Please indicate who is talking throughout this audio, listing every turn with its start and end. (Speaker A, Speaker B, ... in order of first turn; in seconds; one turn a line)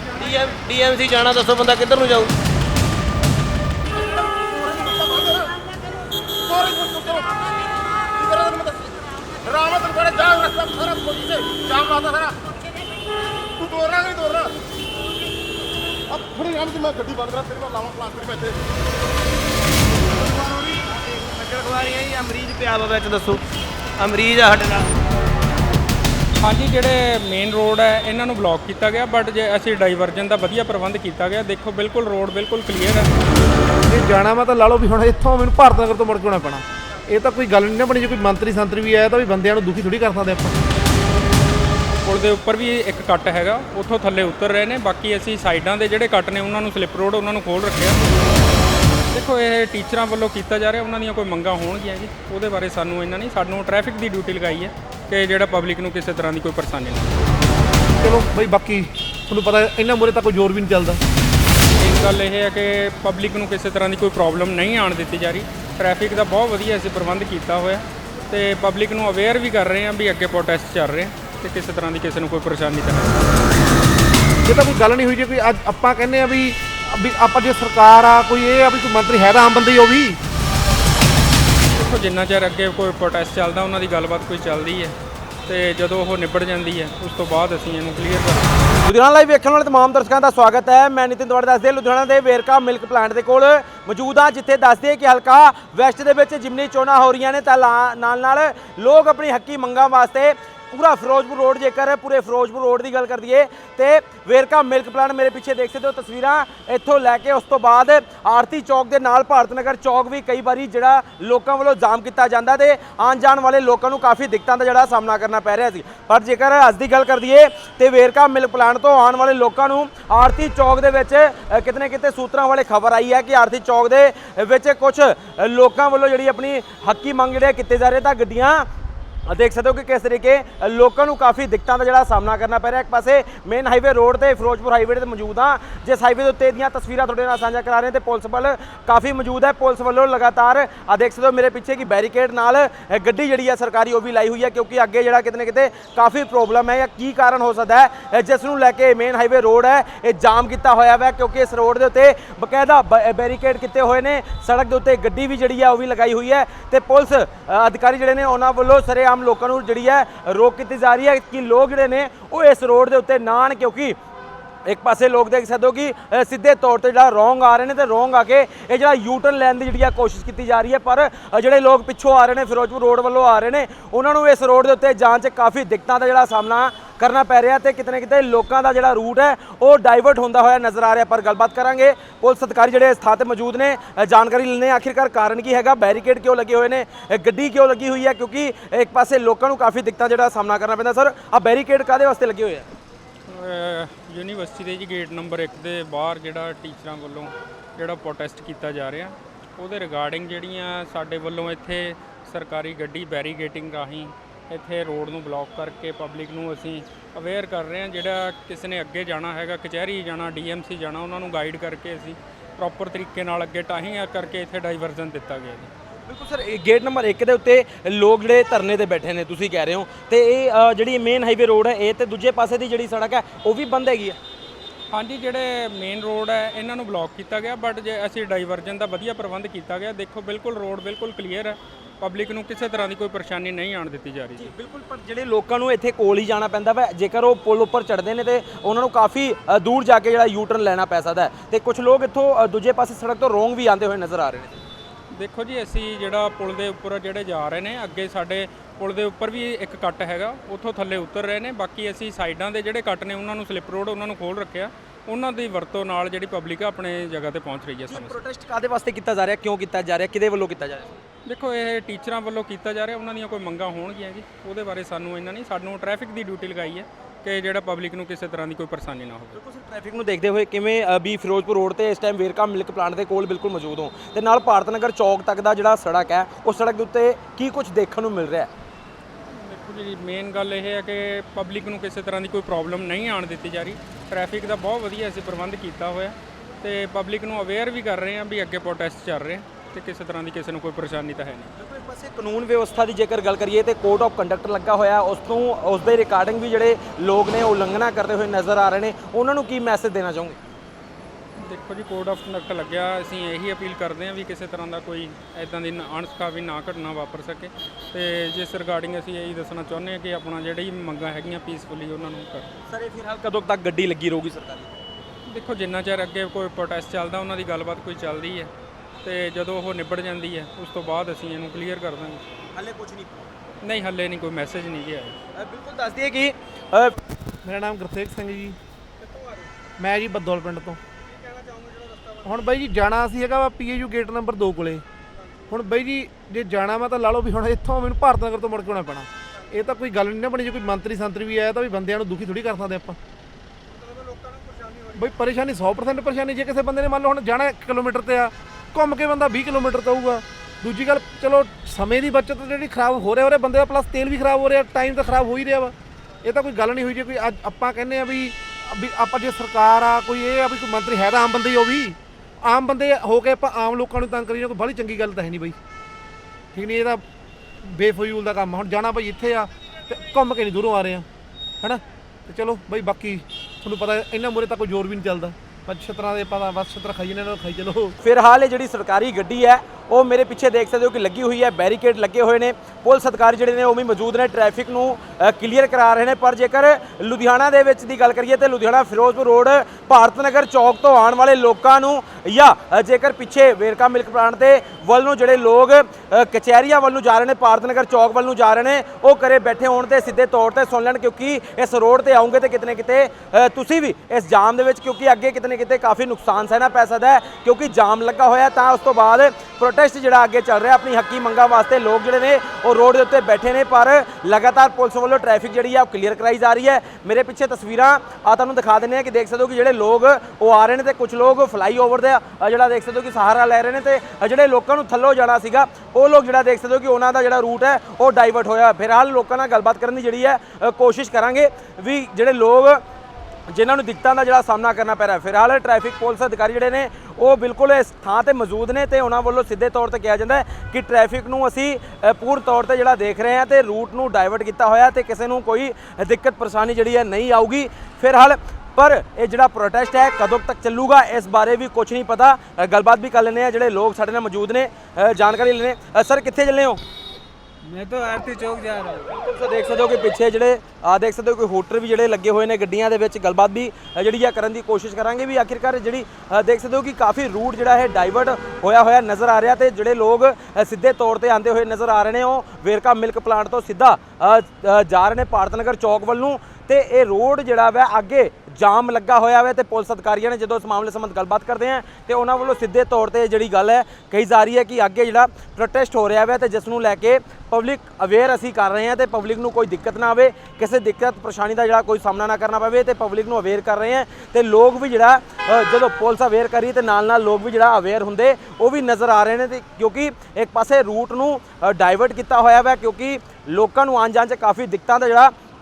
Speaker A: 0.2-2.3
Speaker B: 0.2-2.3
Speaker C: 4.1-5.6
Speaker C: 6.4-12.5
Speaker C: 13.6-14.6
Speaker C: 16.1-18.6
Speaker A: 20.1-23.4
Speaker A: 24.0-24.9
Speaker D: 26.4-33.1
Speaker E: 33.8-40.6
Speaker D: 42.0-48.0
Speaker D: 49.1-57.2
Speaker E: 58.0-61.0
Speaker D: 61.7-73.2
Speaker E: 74.5-80.2
Speaker D: 81.7-88.6
Speaker F: 88.8-128.7
Speaker F: 129.3-164.0
Speaker F: 164.7-192.7
Speaker D: 193.3-215.7
Speaker F: 216.1-224.2
Speaker D: 224.9-234.5
Speaker F: 234.4-244.6
Speaker D: 245.1-258.2
Speaker F: 257.9-260.9
Speaker D: 261.3-269.4
Speaker F: 269.4-278.5
Speaker D: 279.3-291.5
Speaker F: 291.6-300.4
Speaker D: 301.4-312.5
Speaker F: 312.7-314.8
Speaker D: 315.3-318.5
Speaker D: 319.0-322.2
Speaker F: 322.6-323.3
Speaker D: 323.6-325.2
Speaker F: 325.4-326.9
Speaker E: 327.4-328.6
Speaker F: 329.0-329.5
Speaker E: 329.8-330.8
Speaker F: 331.1-332.4
Speaker E: 332.2-334.8
Speaker E: 335.5-343.0
Speaker F: 343.7-345.0
Speaker E: 344.9-365.6
Speaker E: 366.6-367.0
Speaker E: 367.6-371.1
Speaker E: 371.6-378.0
Speaker F: 378.0-432.8
Speaker F: 433.5-456.8
Speaker B: 457.6-459.1
Speaker F: 459.1-505.3